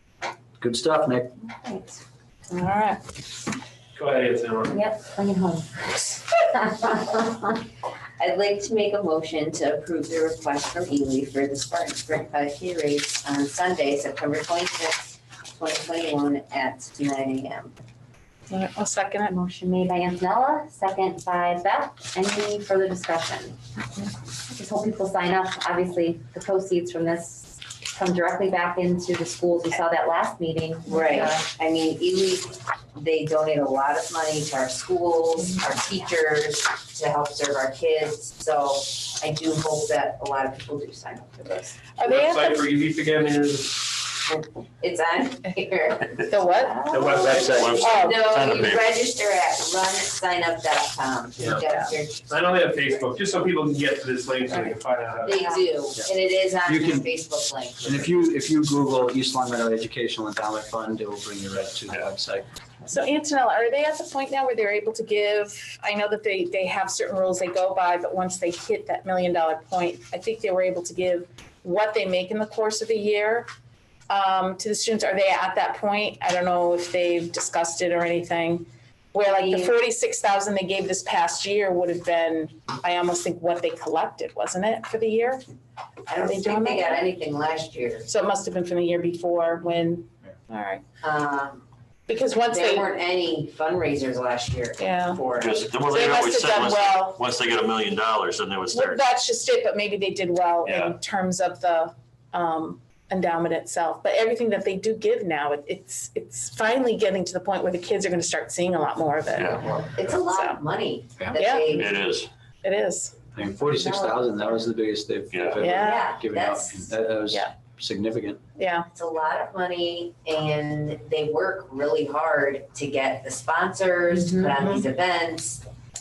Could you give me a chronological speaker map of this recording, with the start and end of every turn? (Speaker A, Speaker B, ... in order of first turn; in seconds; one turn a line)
Speaker A: 0.6-1.4
Speaker B: 1.4-2.0
Speaker C: 2.5-3.0
Speaker D: 3.9-4.8
Speaker B: 4.7-6.3
Speaker E: 6.4-7.7
Speaker E: 8.2-17.7
Speaker C: 18.5-19.3
Speaker B: 19.3-23.6
Speaker B: 24.5-31.5
Speaker E: 30.9-41.9
Speaker C: 41.9-42.7
Speaker D: 42.0-44.0
Speaker E: 44.2-52.5
Speaker C: 46.2-46.9
Speaker D: 46.9-47.7
Speaker A: 47.2-47.6
Speaker F: 47.5-49.0
Speaker C: 47.8-48.3
Speaker C: 51.6-51.9
Speaker D: 52.3-55.6
Speaker E: 55.2-57.9
Speaker A: 55.9-57.1
Speaker A: 57.8-62.5
Speaker C: 62.9-73.5
Speaker C: 74.1-85.4
Speaker E: 79.2-79.8
Speaker E: 86.1-88.1
Speaker C: 86.1-87.0
Speaker C: 88.1-90.8
Speaker E: 91.0-91.6
Speaker C: 92.1-92.9
Speaker E: 92.3-95.6
Speaker C: 94.8-97.2
Speaker F: 95.3-99.1
Speaker C: 98.7-110.6
Speaker F: 100.6-100.9
Speaker F: 109.3-109.6
Speaker E: 109.9-111.9
Speaker C: 111.3-111.8
Speaker F: 111.8-112.3
Speaker C: 112.6-113.2
Speaker A: 113.3-118.4
Speaker F: 115.3-115.6
Speaker C: 115.6-116.0
Speaker E: 115.7-116.9
Speaker C: 118.6-118.9
Speaker E: 118.9-125.6